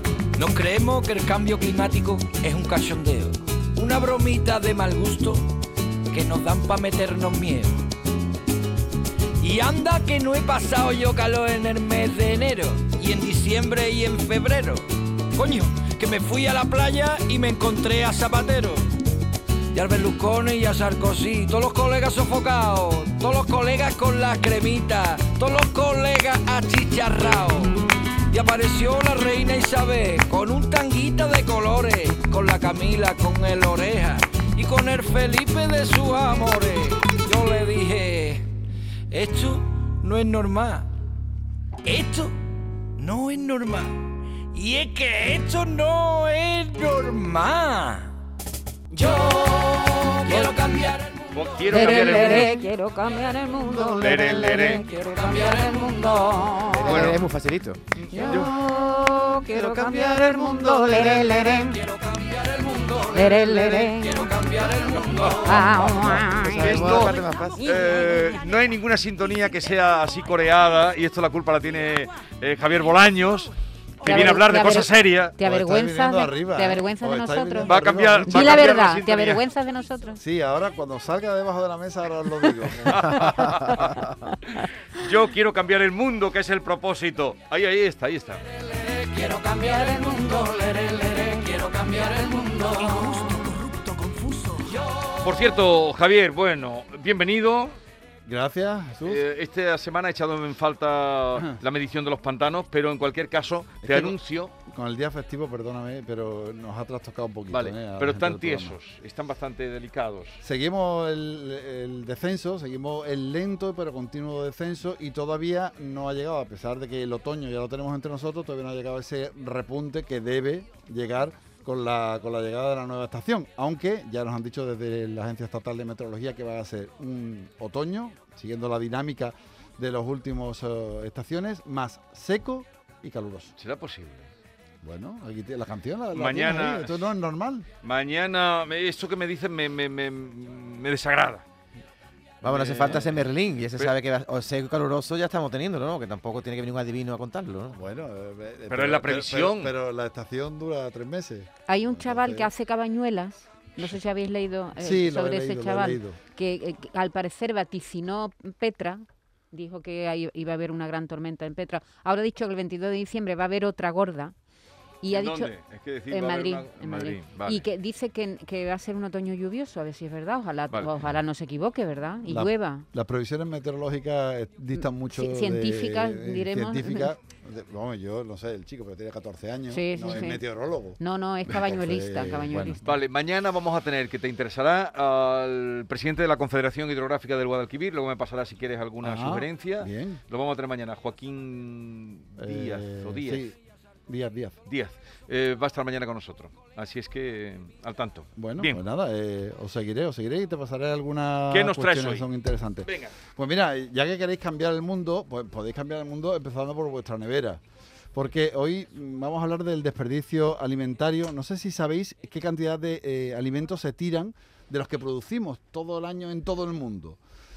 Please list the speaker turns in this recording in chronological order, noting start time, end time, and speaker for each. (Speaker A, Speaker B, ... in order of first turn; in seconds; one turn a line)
Speaker A: 0.4-7.9
Speaker A: 9.4-19.0
Speaker A: 19.7-38.5
Speaker A: 39.1-40.9
Speaker A: 41.8-42.4
Speaker A: 43.0-48.1
Speaker A: 48.9-52.4
Speaker B: 51.3-52.5
Speaker C: 51.7-57.2
Speaker B: 54.0-54.9
Speaker A: 55.0-55.8
Speaker D: 56.7-58.7
Speaker B: 56.9-57.2
Speaker C: 58.1-61.8
Speaker B: 58.2-58.5
Speaker D: 59.5-61.6
Speaker A: 61.7-66.0
Speaker C: 63.1-64.4
Speaker C: 65.4-67.0
Speaker D: 66.1-67.7
Speaker B: 66.5-75.3
Speaker C: 74.0-80.2
Speaker E: 75.4-78.8
Speaker B: 77.7-79.4
Speaker E: 80.2-83.5
Speaker B: 82.9-84.1
Speaker B: 84.9-88.4
Speaker A: 88.9-94.8
Speaker C: 92.0-92.7
Speaker B: 95.2-97.8
Speaker E: 98.3-99.2
Speaker B: 99.0-104.5
Speaker E: 103.8-108.8
Speaker B: 107.5-110.4
Speaker E: 110.4-133.5
Speaker B: 133.6-134.3
Speaker E: 134.8-137.7
Speaker B: 136.1-137.1
Speaker B: 137.8-141.4
Speaker B: 142.4-143.9
Speaker D: 142.4-147.8
Speaker E: 147.7-152.5
Speaker B: 148.7-149.7
Speaker C: 151.7-164.3
Speaker E: 154.8-156.2
Speaker C: 165.0-165.6
Speaker B: 165.1-167.6
Speaker C: 166.1-172.9
Speaker E: 172.2-182.8
Speaker C: 174.7-177.1
Speaker C: 179.7-180.4
Speaker C: 181.0-182.8
Speaker B: 182.8-193.4
Speaker E: 189.0-190.2
Speaker E: 192.4-193.6
Speaker E: 194.1-194.6
Speaker B: 194.7-198.8
Speaker E: 198.4-207.6
Speaker B: 201.5-202.3
Speaker B: 202.9-203.2
Speaker E: 208.1-217.2